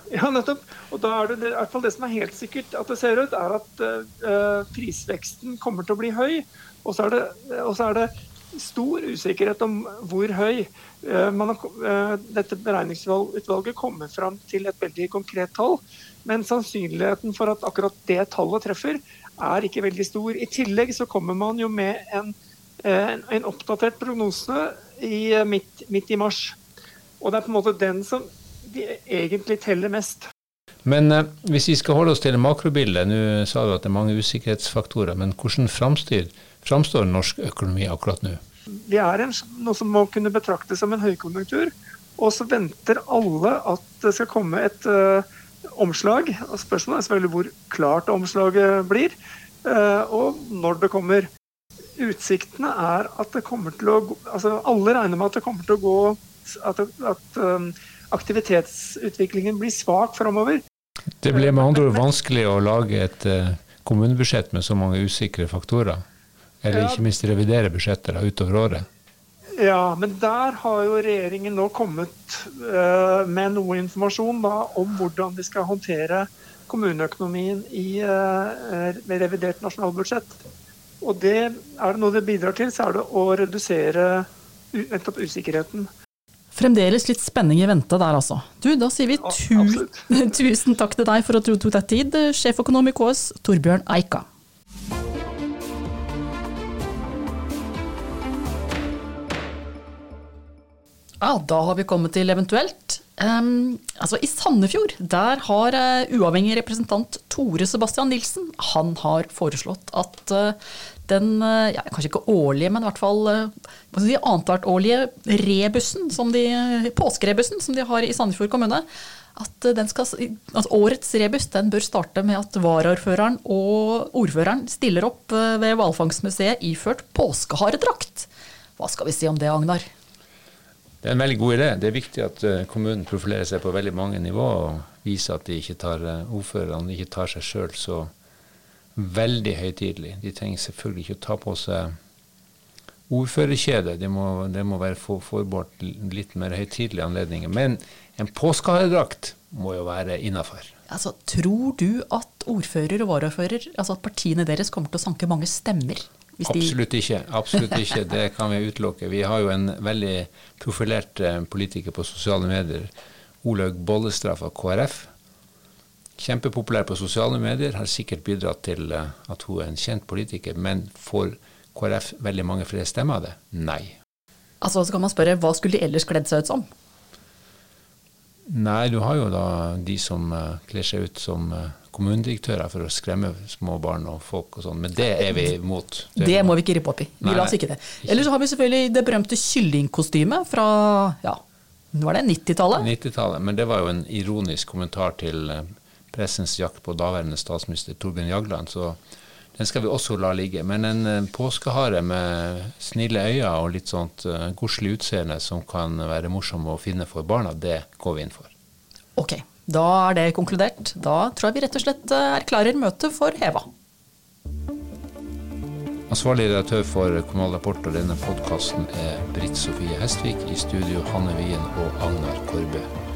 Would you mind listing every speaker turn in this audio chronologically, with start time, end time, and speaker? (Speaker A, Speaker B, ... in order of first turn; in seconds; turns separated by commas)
Speaker A: 0.1-26.6, Speaker A: 27.2-30.3, Speaker B: 30.9-38.4, Speaker A: 38.9-51.3, Speaker A: 52.0-60.6, Speaker B: 61.2-66.0, Speaker A: 61.3-62.0, Speaker B: 66.6-68.9, Speaker A: 66.7-67.0, Speaker A: 69.6-80.4, Speaker A: 81.0-85.9, Speaker C: 86.5-94.3, Speaker A: 89.1-90.0, Speaker C: 101.2-129.9, Speaker B: 131.0-138.1, Speaker B: 139.0-141.9, Speaker B: 143.1-150.7, Speaker C: 150.9-156.8, Speaker B: 156.4-162.9, Speaker B: 163.4-165.1, Speaker B: 166.2-174.0, Speaker C: 174.6-176.7, Speaker B: 178.5-186.6, Speaker C: 186.2-191.4, Speaker B: 187.2-188.2, Speaker C: 191.9-192.9, Speaker B: 192.7-199.0, Speaker B: 199.6-208.5, Speaker C: 209.2-213.7, Speaker B: 216.1-222.9